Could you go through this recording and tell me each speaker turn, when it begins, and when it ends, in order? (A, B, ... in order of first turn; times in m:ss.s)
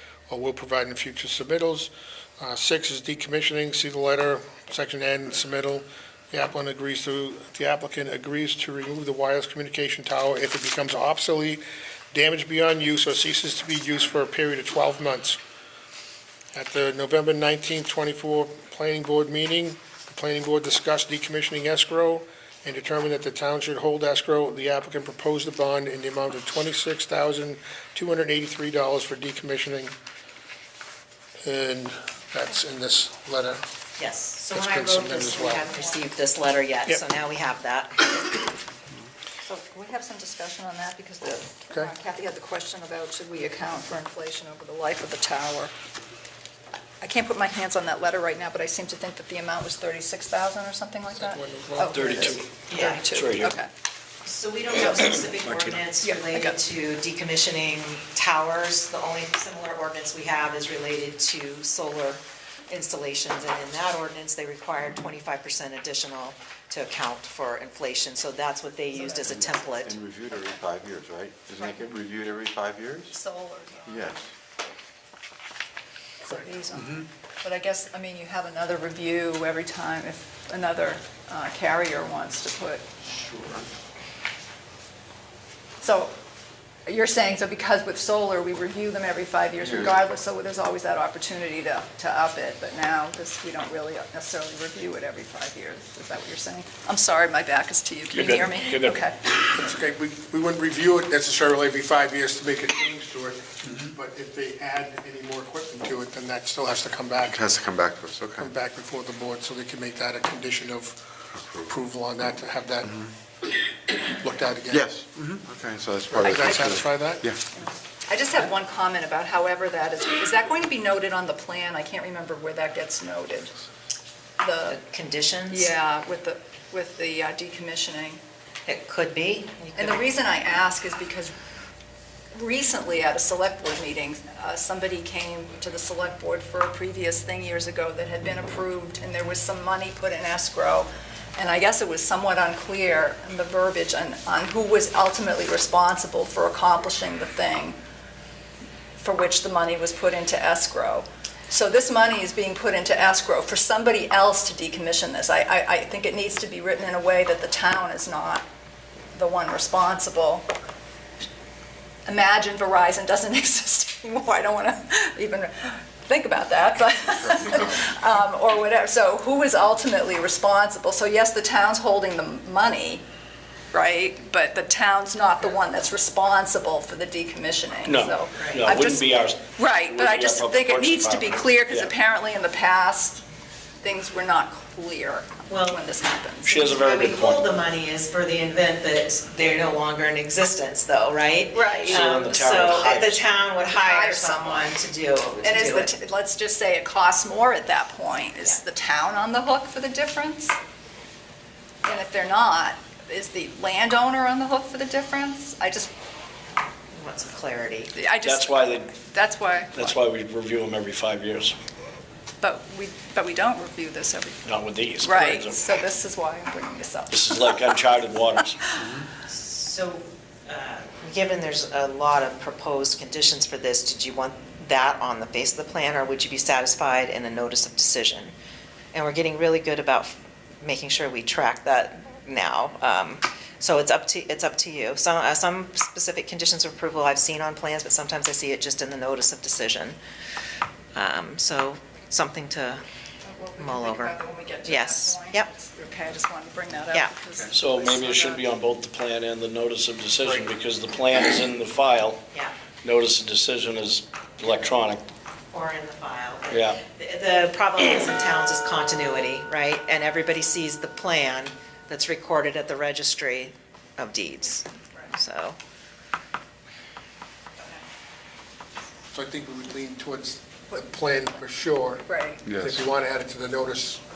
0:00.3-0:15.4 A
0:16.5-0:29.9 A
0:31.4-0:33.6 A
0:34.0-0:38.4 B
0:34.5-0:35.7 A
0:35.5-0:36.0 C
0:39.4-0:45.7 C
0:47.0-0:53.7 C
0:51.1-0:52.3 A
0:51.9-0:52.4 D
0:52.7-0:53.0 B
0:53.0-0:53.5 D
0:54.2-1:10.0 B
0:55.4-0:55.8 D
0:56.0-0:56.6 C
1:08.9-1:09.6 C
1:09.2-1:13.1 E
1:10.3-1:10.6 C
1:11.5-1:11.9 C
1:13.1-1:14.3 C
1:13.9-1:14.2 E
1:16.2-1:22.9 C
1:23.1-1:23.7 E
1:25.8-1:26.1 C
1:26.8-1:39.2 C
1:29.6-1:29.9 E
1:38.1-1:39.0 D
1:39.5-1:47.5 A
1:47.3-1:48.5 E
1:48.3-1:53.1 A
1:54.2-1:54.9 A
1:54.7-1:57.4 E
1:56.1-1:57.3 A
1:57.6-2:03.5 C
2:04.4-2:04.8 C
2:04.7-2:05.7 B
2:05.5-2:08.2 C
2:08.6-2:10.1 B
2:09.8-2:11.3 C
2:12.3-2:27.8 C
2:29.0-2:38.4 C
2:39.1-2:40.5 C
2:42.0-2:53.0 C
2:53.7-3:03.2 C
2:57.8-3:01.9 D
2:58.3-2:58.6 B
3:03.8-3:06.8 C
3:05.5-3:05.8 B
3:06.4-3:07.4 D
3:06.6-3:15.9 B
3:11.5-3:12.4 C
3:11.8-3:13.2 D
3:13.7-3:14.8 C
3:15.4-3:20.6 C
3:21.8-3:25.9 C
3:26.9-3:28.0 B
3:27.9-3:30.0 C
3:28.2-3:28.8 D
3:29.7-3:31.6 D
3:32.4-3:34.5 C
3:34.4-3:35.6 D
3:35.0-3:37.6 C
3:37.1-3:38.6 D
3:39.2-3:48.3 B
3:48.9-4:00.0 B
4:00.9-4:02.8 B
4:03.2-4:08.5 C
4:03.6-4:05.5 B
4:07.5-4:12.2 D
4:12.8-4:15.0 D
4:15.5-4:25.6 B
4:16.5-4:16.8 D
4:29.1-4:34.0 A
4:32.1-4:32.4 C
4:32.5-4:32.8 E